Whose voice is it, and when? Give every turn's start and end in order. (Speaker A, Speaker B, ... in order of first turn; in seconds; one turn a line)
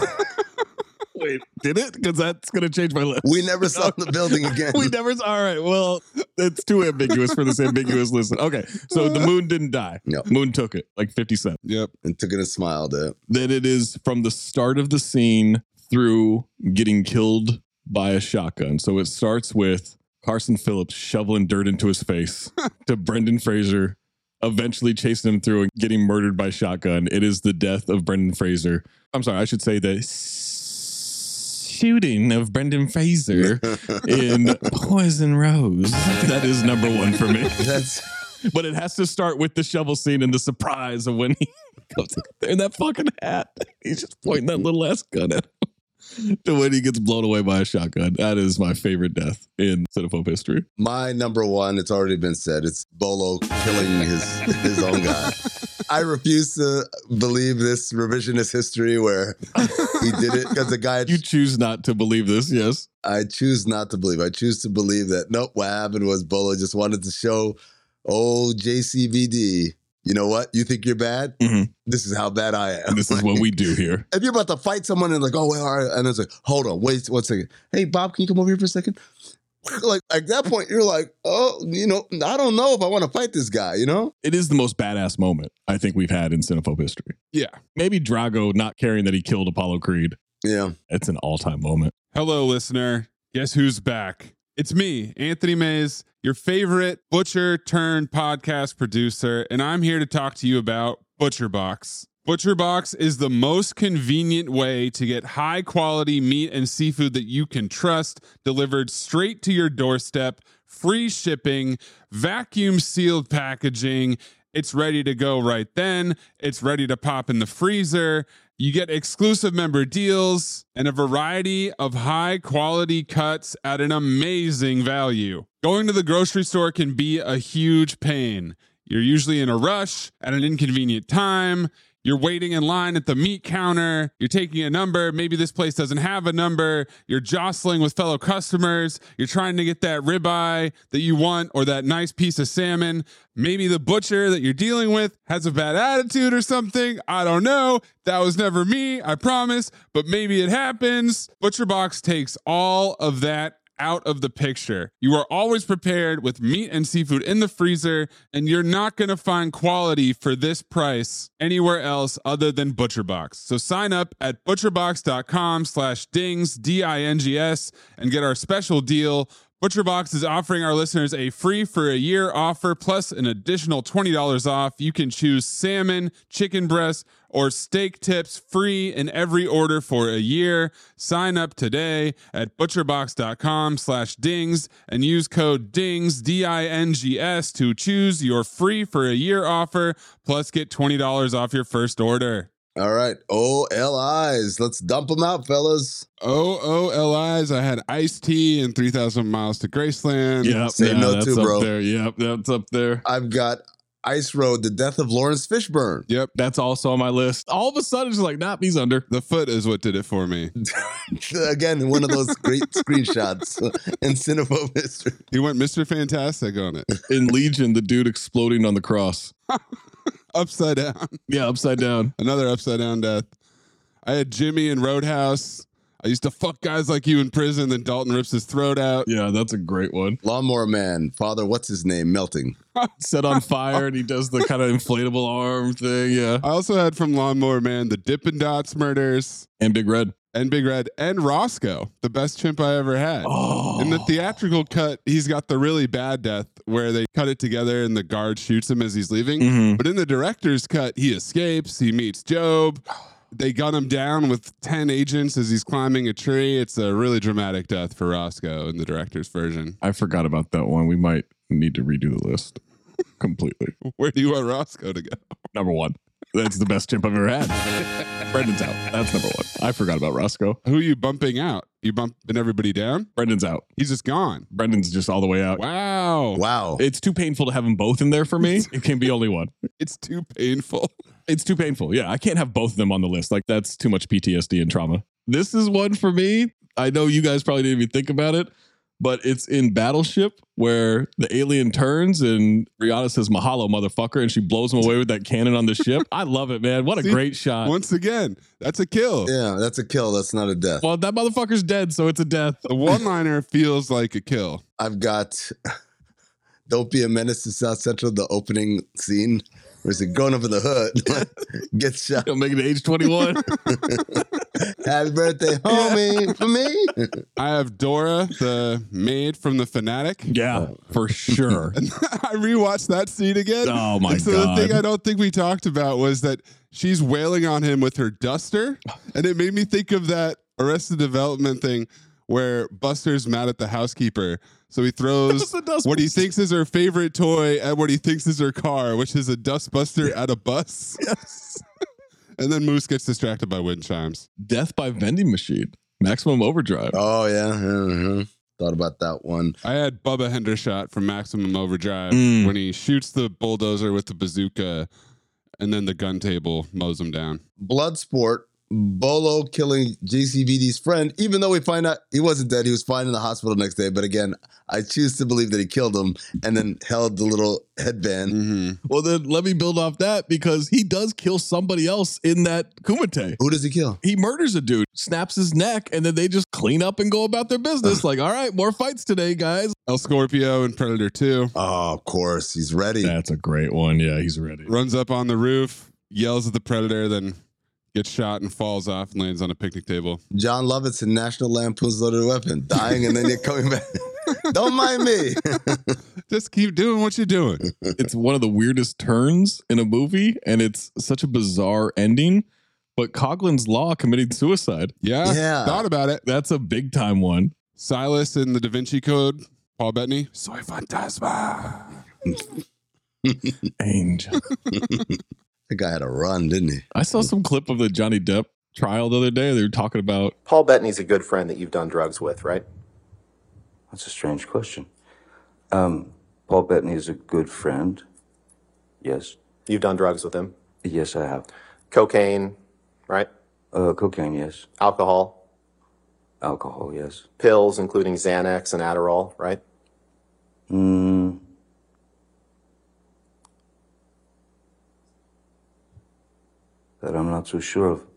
Speaker A: 1.1-11.6
Speaker B: 3.2-4.9
Speaker C: 11.6-11.9
Speaker B: 12.0-13.2
Speaker A: 13.3-37.6
Speaker B: 33.3-34.5
Speaker B: 37.6-38.0
Speaker A: 38.5-45.5
Speaker A: 46.2-50.7
Speaker B: 50.8-55.4
Speaker B: 55.9-61.2
Speaker A: 61.1-62.9
Speaker B: 63.0-73.5
Speaker A: 71.4-71.7
Speaker A: 72.9-74.1
Speaker B: 74.1-79.0
Speaker B: 79.6-84.1
Speaker A: 84.2-87.2
Speaker A: 87.8-90.2
Speaker B: 90.4-90.7
Speaker A: 90.9-91.9
Speaker C: 92.1-192.5
Speaker B: 192.8-196.1
Speaker C: 196.2-200.6
Speaker A: 200.4-203.0
Speaker B: 200.8-201.7
Speaker B: 203.0-206.1
Speaker A: 206.3-209.1
Speaker C: 209.1-210.5
Speaker B: 210.7-215.2
Speaker C: 215.3-216.9
Speaker A: 217.1-219.3
Speaker C: 220.3-221.2
Speaker A: 221.3-222.1
Speaker C: 222.2-223.3
Speaker C: 224.1-229.1
Speaker A: 229.1-230.2
Speaker B: 230.2-232.6
Speaker C: 232.8-233.9
Speaker A: 233.0-236.4
Speaker C: 236.4-239.5
Speaker A: 239.6-240.1
Speaker C: 240.3-259.8
Speaker A: 243.2-244.1
Speaker A: 249.4-249.8
Speaker A: 259.8-262.6
Speaker A: 263.2-263.7
Speaker C: 263.9-265.2
Speaker A: 265.5-267.6
Speaker A: 268.3-270.6
Speaker C: 270.6-273.1
Speaker A: 273.2-273.6
Speaker C: 273.8-274.5
Speaker A: 274.5-275.6
Speaker C: 275.6-276.4
Speaker B: 276.4-276.8
Speaker A: 276.8-279.5
Speaker C: 279.8-280.9
Speaker A: 281.3-297.7
Speaker C: 297.0-299.3
Speaker B: 299.3-300.8
Speaker A: 300.8-302.7
Speaker C: 302.7-304.6
Speaker B: 304.8-305.6
Speaker B: 306.7-312.3
Speaker A: 312.2-313.5
Speaker B: 313.7-317.2
Speaker A: 315.7-316.0
Speaker C: 317.4-320.3
Speaker A: 320.3-321.8
Speaker C: 321.8-341.0
Speaker A: 323.6-324.8
Speaker A: 335.3-336.3
Speaker A: 341.0-341.6
Speaker C: 342.4-344.3
Speaker A: 344.4-347.0
Speaker B: 346.9-349.6
Speaker C: 349.6-354.9
Speaker A: 352.1-352.5
Speaker C: 355.6-357.4
Speaker B: 357.6-368.3
Speaker C: 368.3-368.8
Speaker A: 368.9-373.4
Speaker B: 373.4-374.0
Speaker A: 374.0-379.7
Speaker C: 379.9-381.5
Speaker B: 381.6-383.1
Speaker A: 383.0-384.7
Speaker C: 384.7-387.4
Speaker C: 387.9-390.2
Speaker B: 390.3-396.0
Speaker C: 396.3-397.6
Speaker A: 398.0-402.4
Speaker A: 403.0-404.9
Speaker C: 405.0-406.2
Speaker B: 405.2-405.9
Speaker A: 406.2-407.5
Speaker C: 407.8-412.0
Speaker B: 413.2-413.5
Speaker A: 413.8-414.4
Speaker B: 415.7-416.9
Speaker A: 416.9-420.3
Speaker D: 420.5-422.6
Speaker E: 423.9-424.9
Speaker E: 425.7-428.0
Speaker E: 429.0-429.4
Speaker D: 429.7-430.5
Speaker E: 430.8-431.5
Speaker D: 431.9-432.6
Speaker E: 433.7-434.7
Speaker D: 434.8-435.4
Speaker E: 436.4-437.3
Speaker D: 437.4-439.6
Speaker E: 440.7-441.4
Speaker E: 447.0-448.1